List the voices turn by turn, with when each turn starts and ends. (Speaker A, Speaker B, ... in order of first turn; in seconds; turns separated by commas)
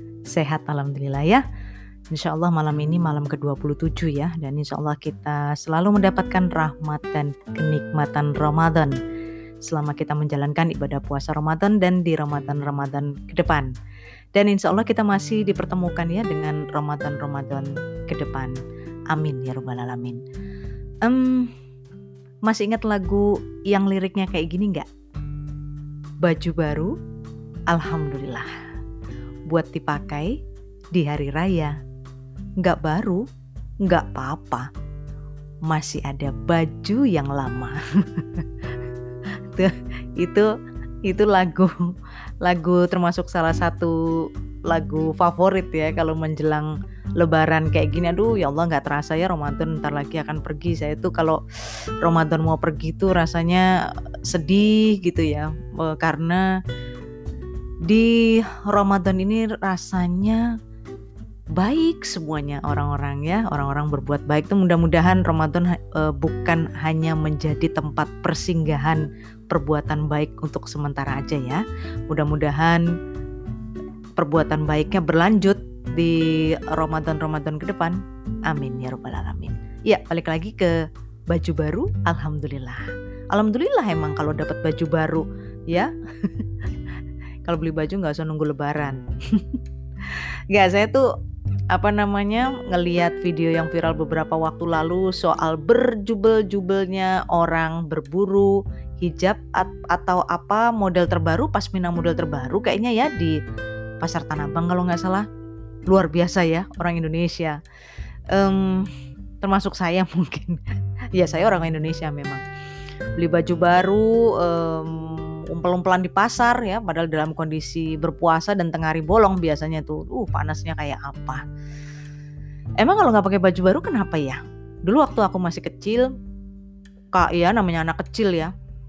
Speaker A: 0.3-1.4, Speaker A: 2.1-9.0, Speaker A: 9.6-13.7, Speaker A: 14.3-18.6, Speaker A: 19.1-20.2, Speaker A: 21.0-21.5, Speaker A: 22.4-24.9, Speaker A: 26.2-26.9, Speaker A: 27.7-28.5, Speaker A: 29.5-30.4, Speaker A: 30.9-31.8, Speaker A: 32.6-33.2, Speaker A: 33.9-34.6, Speaker A: 35.7-38.7, Speaker A: 39.5-40.5, Speaker A: 41.0-41.9, Speaker A: 42.4-51.4, Speaker A: 52.0-53.7, Speaker A: 54.2-56.5, Speaker A: 57.9-60.5, Speaker A: 61.6-72.9, Speaker A: 74.2-80.8, Speaker A: 81.3-86.5, Speaker A: 87.4-91.1, Speaker A: 91.7-103.3, Speaker A: 104.0-105.2, Speaker A: 105.9-107.6, Speaker A: 108.3-108.9, Speaker A: 109.4-112.4, Speaker A: 113.2-121.4, Speaker A: 122.8-126.1, Speaker A: 127.1-128.5